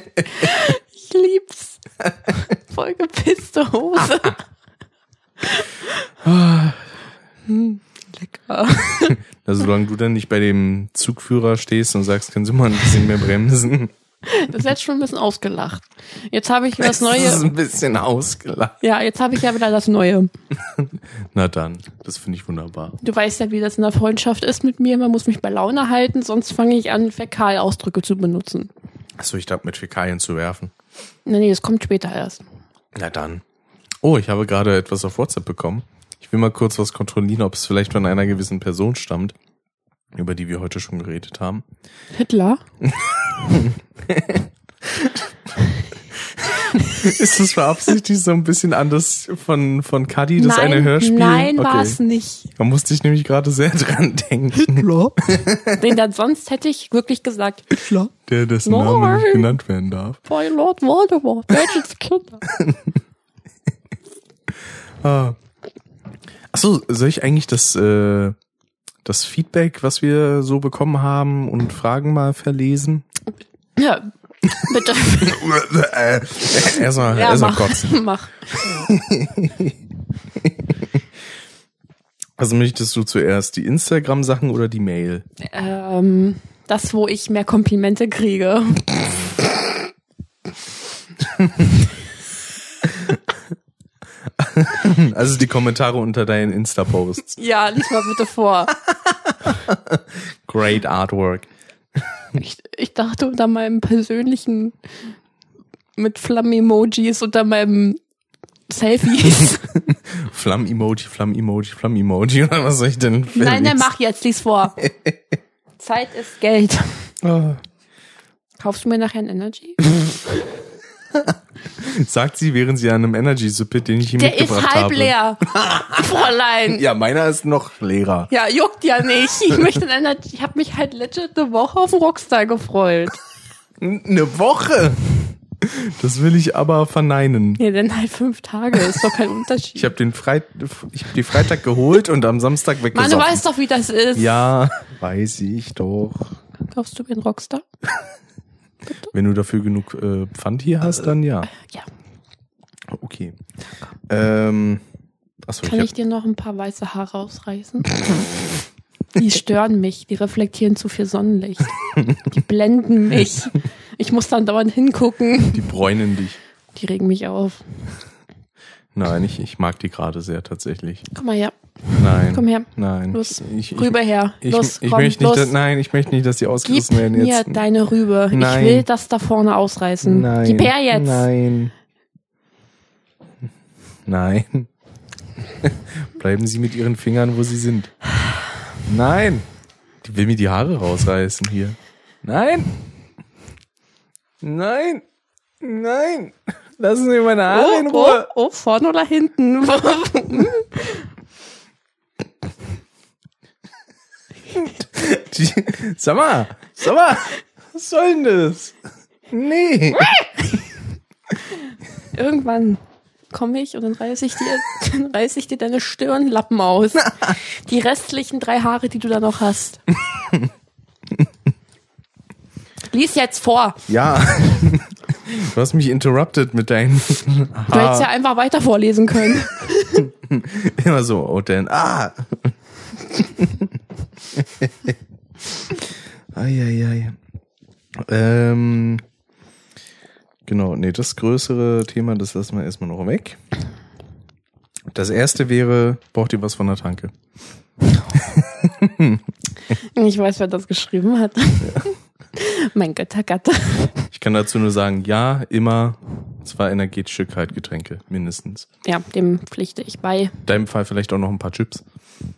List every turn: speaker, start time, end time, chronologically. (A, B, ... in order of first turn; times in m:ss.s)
0:00.3-0:04.4 A
0:05.4-0:06.1 A
0:06.2-0:06.9 B
0:07.5-0:09.2 A
0:09.0-0:13.9 B
0:14.2-0:17.5 A
0:16.8-0:18.8 B
0:18.8-0:20.3 A
0:20.6-0:23.0 B
0:23.0-0:28.7 A
0:29.2-0:30.7 B
0:31.2-0:32.4 A
0:32.9-0:33.4 B
0:34.0-0:39.3 B
0:40.1-0:41.6 B
0:42.1-0:42.6 A
0:42.8-0:45.2 B
0:46.1-0:52.0 B
0:46.7-0:47.1 A
0:50.4-0:52.5 A
0:52.6-0:55.8 B
0:54.5-0:58.1 A
0:58.2-1:00.2 B
0:58.6-0:59.5 A
1:00.2-1:02.4 A
1:02.5-1:03.0 B
1:05.0-1:05.4 B
1:06.5-1:08.3 B
1:09.0-1:13.0 B
1:13.8-1:15.4 A
1:15.2-1:18.0 B
1:16.7-1:18.8 A
1:18.6-1:19.8 B
1:20.4-1:20.7 B
1:22.4-1:25.2 B
1:25.4-1:29.2 A
1:34.4-1:37.4 B
1:37.3-1:38.8 A
1:39.1-1:42.2 B
1:42.3-1:44.8 A
1:46.0-1:48.0 A
1:48.7-1:49.7 A
1:49.5-1:53.8 B
1:53.3-1:54.8 A
1:55.8-1:57.1 A
1:57.2-1:57.6 B
1:58.6-1:59.9 A
2:01.2-2:06.1 B
2:04.1-2:06.8 A
2:06.7-2:08.3 B
2:08.3-2:13.2 A
2:13.8-2:17.6 B
2:17.6-2:19.9 A
2:19.8-2:23.4 B
2:22.9-2:24.4 A
2:24.2-2:26.4 B
2:26.7-2:27.6 A
2:29.1-2:31.5 B
2:31.5-2:31.9 A
2:32.9-2:33.4 B
2:34.1-2:34.8 B
2:35.4-2:35.9 B
2:35.6-2:38.3 A
2:39.1-2:45.7 A
2:45.5-2:46.4 B
2:46.7-2:48.0 A
2:48.9-2:51.1 B
2:51.1-2:55.5 A
2:52.0-2:57.6 B
2:56.6-3:01.3 A
2:58.3-2:58.8 B
3:00.0-3:01.7 B
3:04.0-3:04.7 B
3:05.6-3:08.0 B
3:08.8-3:09.4 B
3:10.0-3:12.7 B
3:14.4-3:15.0 B
3:15.6-3:18.3 B
3:17.5-3:21.0 A
3:24.8-3:28.8 B
3:29.3-3:30.1 B
3:32.1-3:39.9 A
3:42.9-3:44.6 A
3:43.9-3:48.1 B
3:47.7-3:50.1 A
3:50.0-3:52.6 B
3:53.1-3:53.7 B
3:54.3-3:55.0 B
3:56.3-3:57.2 B
3:58.0-3:59.0 B
4:00.4-4:03.4 B
4:04.9-4:07.1 B
4:08.1-4:09.2 B
4:09.7-4:14.1 A
4:11.6-4:11.9 B
4:14.1-4:18.7 B
4:18.8-4:20.4 A
4:20.4-4:21.8 B